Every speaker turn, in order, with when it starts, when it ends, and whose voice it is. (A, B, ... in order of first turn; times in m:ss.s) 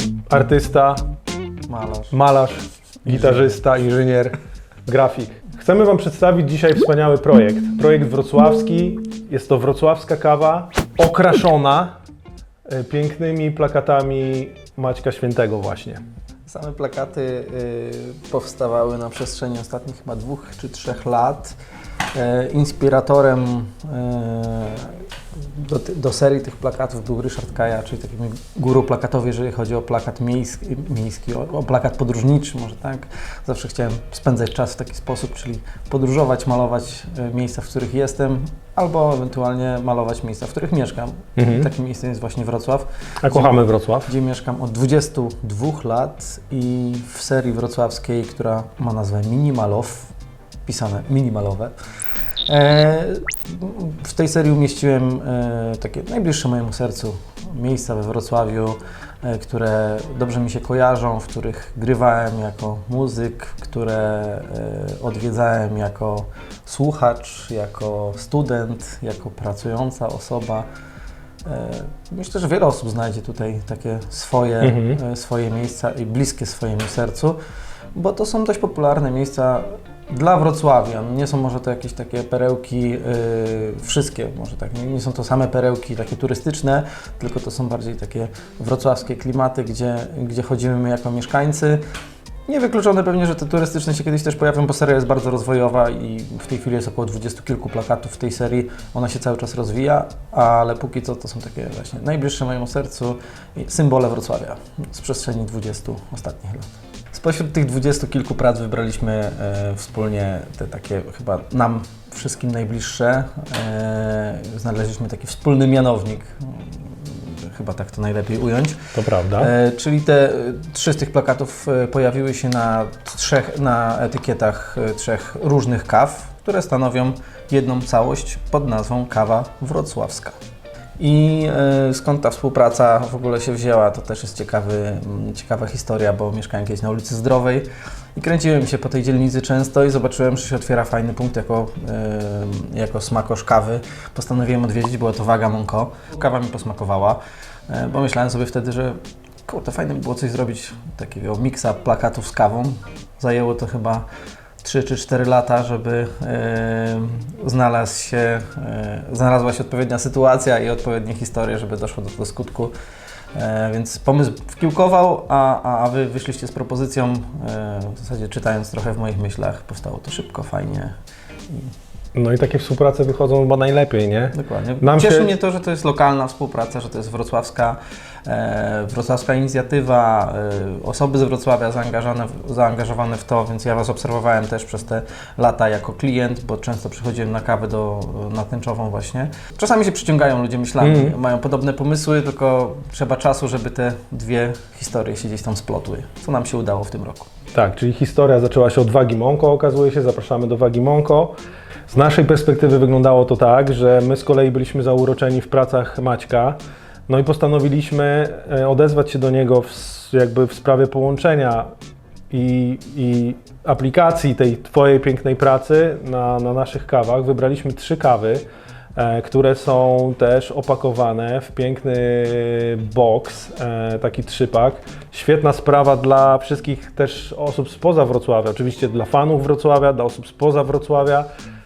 0:00.3-0:01.0 A
0:01.7-0:02.2 B
0:02.1-0:04.4 A
0:04.9-0:11.9 A
0:12.7-0:16.0 A
0:16.5-0:21.6 B
0:22.1-0:50.1 B
0:41.4-0:41.7 A
0:43.2-0:44.1 A
0:50.7-0:51.7 B
0:52.5-1:10.7 B
1:11.4-1:17.4 B
1:14.6-1:15.0 A
1:18.0-1:31.8 B
1:32.5-1:58.8 B
1:58.9-1:59.5 A
1:59.4-2:10.4 B
2:11.0-2:34.0 B
2:34.6-2:42.7 B
2:43.4-2:51.0 B
2:52.1-2:55.3 A
2:54.3-3:17.3 B
3:10.8-3:11.2 A
3:17.5-3:21.3 A
3:21.9-3:26.6 A
3:27.1-3:31.7 A
3:32.3-3:38.4 A
3:39.0-3:51.3 A